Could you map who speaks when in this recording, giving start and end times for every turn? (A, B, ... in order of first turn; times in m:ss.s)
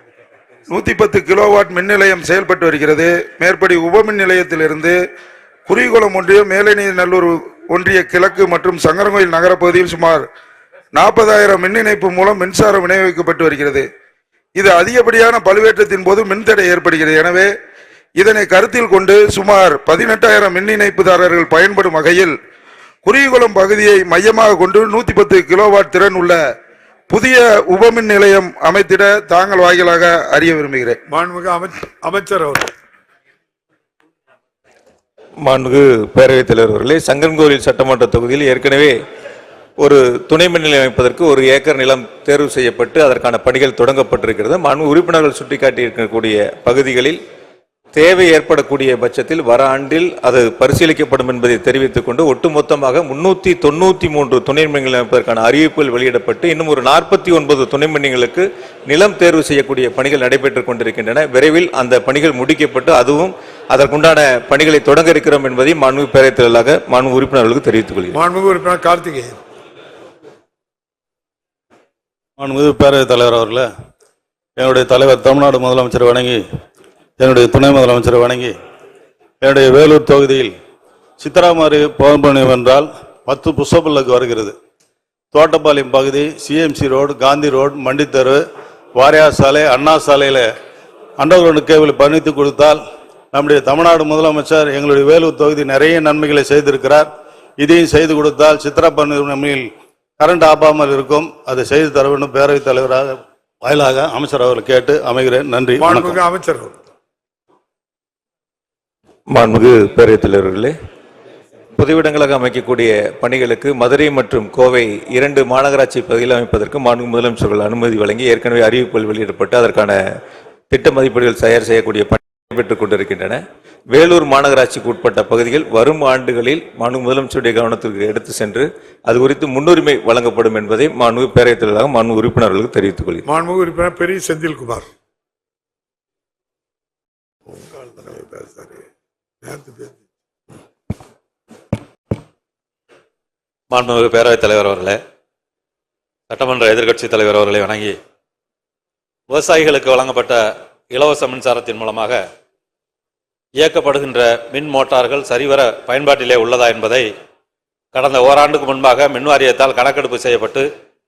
0:00.7-0:05.0 A
0:05.7-0:10.3 A
0:10.9-0:13.9 A
0:14.6-0:17.5 A
0:18.2-0:22.4 A
0:23.0-0:26.4 A
0:27.1-0:31.0 A
0:31.1-0:32.7 B
0:35.4-0:38.9 C
0:39.8-0:47.2 C
0:47.9-1:08.2 C
1:08.1-1:09.4 B
1:12.4-1:13.7 D
1:14.6-1:16.4 D
1:17.2-1:18.6 D
1:19.4-1:20.6 D
1:21.2-1:24.6 D
1:25.3-1:28.4 D
1:28.9-1:30.5 D
1:31.2-1:32.8 D
1:33.3-1:37.1 D
1:37.6-1:46.2 D
1:45.8-1:46.8 B
1:49.3-1:50.7 C
1:51.8-2:00.0 C
2:00.7-2:03.4 C
2:03.9-2:13.2 C
2:13.2-2:14.9 B
2:17.5-2:18.8 B
2:19.4-2:20.0 B
2:23.7-2:25.0 E
2:26.3-2:28.0 E
2:29.3-2:32.2 E
2:33.6-2:37.1 E
2:37.9-2:40.7 E